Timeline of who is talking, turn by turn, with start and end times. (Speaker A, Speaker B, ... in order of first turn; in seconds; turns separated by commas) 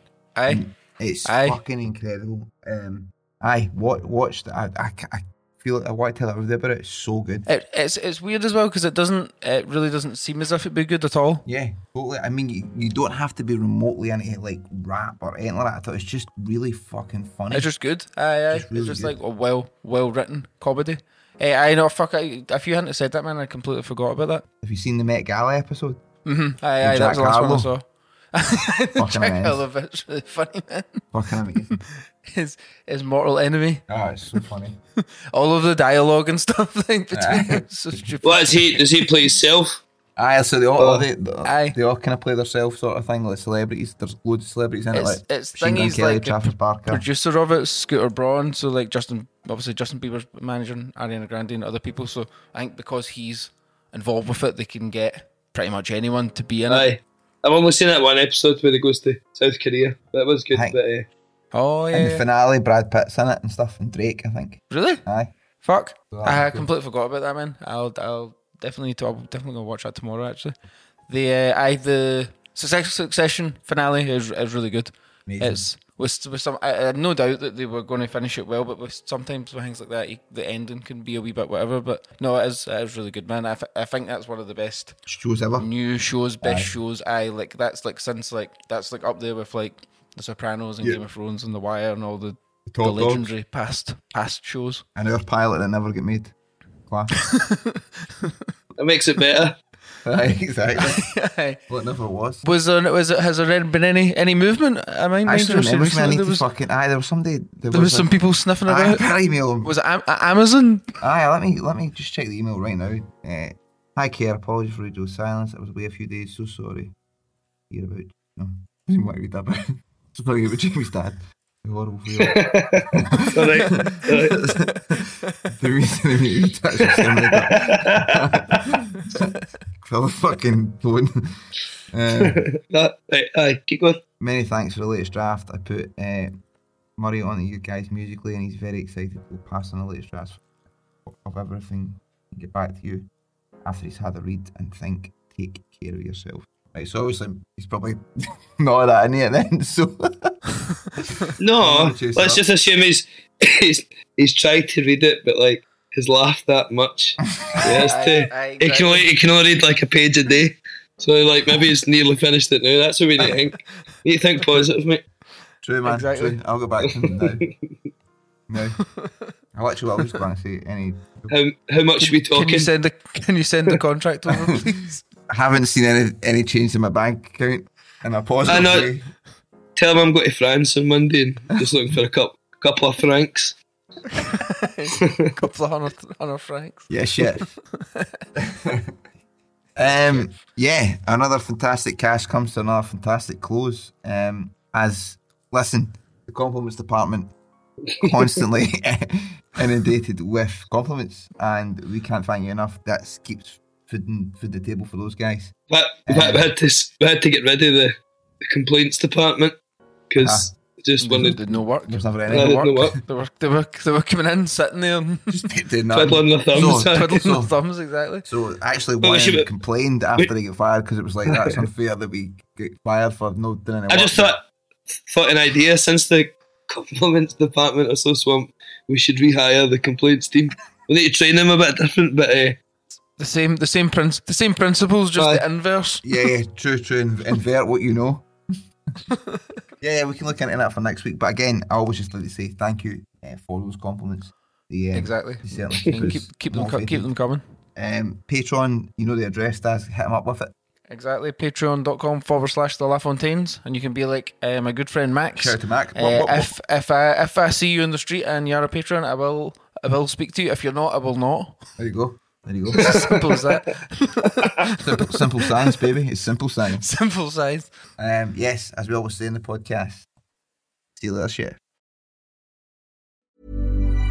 Speaker A: 0.4-0.6, Speaker B: 0.5-7.5, Speaker A: 1.2-1.6, Speaker A: 7.5-11.4, Speaker B: 11.5-17.7, Speaker A: 17.5-24.5, Speaker B: 18.5-19.1, Speaker B: 24.6-26.0, Speaker A: 26.3-31.0, Speaker B: 26.8-27.7, Speaker B: 29.0-29.6, Speaker B: 31.1-31.8, Speaker A: 31.8-33.8, Speaker B: 33.9-34.8, Speaker A: 35.3-38.8, Speaker B: 37.1-37.6, Speaker C: 38.2-39.8, Speaker B: 40.2-47.1, Speaker C: 40.8-41.1, Speaker A: 41.5-41.8, Speaker A: 44.9-56.9, Speaker C: 56.7-61.1, Speaker A: 61.5-62.2, Speaker B: 61.9-65.3, Speaker A: 64.7-65.0, Speaker A: 65.6-70.5, Speaker B: 66.1-66.7, Speaker A: 71.1-85.0, Speaker B: 75.3-75.6, Speaker B: 85.1-85.7, Speaker A: 85.6-94.8, Speaker B: 86.4-86.7, Speaker B: 92.7-93.3, Speaker B: 95.0-96.3, Speaker B: 96.9-97.2, Speaker A: 97.2-98.3, Speaker C: 98.8-99.6, Speaker B: 100.0-101.0, Speaker A: 100.8-101.6, Speaker B: 101.7-102.4, Speaker A: 102.4-106.5, Speaker B: 105.3-108.1, Speaker A: 107.7-109.0, Speaker B: 108.7-109.7, Speaker A: 109.6-110.8, Speaker B: 111.0-116.9, Speaker B: 117.7-129.2, Speaker C: 122.2-124.4, Speaker C: 126.9-128.6, Speaker B: 129.8-131.3, Speaker B: 131.9-132.4, Speaker C: 132.2-134.0, Speaker B: 134.2-136.3, Speaker B: 137.0-140.4, Speaker B: 141.1-143.1, Speaker B: 143.6-150.3, Speaker C: 151.4-165.0, Speaker B: 151.6-152.4, Speaker B: 157.3-157.7, Speaker A: 157.8-159.1, Speaker B: 165.6-167.4, Speaker A: 165.9-166.4, Speaker C: 166.9-167.5, Speaker B: 168.5-168.8, Speaker B: 169.6-171.3, Speaker C: 171.3-172.7, Speaker A: 172.0-175.0, Speaker B: 174.3-174.7, Speaker B: 175.3-179.1, Speaker C: 178.5-178.9, Speaker C: 179.8-183.6, Speaker A: 184.1-188.2, Speaker C: 185.0-185.3, Speaker B: 186.9-187.5, Speaker B: 188.4-188.9, Speaker B: 189.8-197.3, Speaker C: 197.9-198.3, Speaker B: 198.0-205.5, Speaker C: 205.7-209.6, Speaker B: 206.1-206.5, Speaker C: 210.1-211.4, Speaker B: 210.2-210.5, Speaker A: 211.0-215.5, Speaker B: 211.2-213.0, Speaker C: 212.3-213.0, Speaker B: 215.3-217.5, Speaker C: 215.9-217.2, Speaker A: 216.9-218.3, Speaker B: 218.2-224.3, Speaker C: 219.0-219.5, Speaker C: 221.3-221.6, Speaker C: 223.9-224.4, Speaker C: 225.0-232.6, Speaker A: 233.2-236.0, Speaker C: 235.2-235.4, Speaker B: 236.0-238.3, Speaker A: 239.1-239.4, Speaker B: 239.8-247.1, Speaker A: 244.9-247.4, Speaker B: 247.8-250.5, Speaker A: 250.9-261.6, Speaker B: 255.4-256.5, Speaker B: 261.8-263.1, Speaker C: 262.8-263.5, Speaker A: 262.8-265.7, Speaker B: 264.8-266.9, Speaker A: 266.7-267.7, Speaker B: 268.0-270.1, Speaker B: 271.0-271.6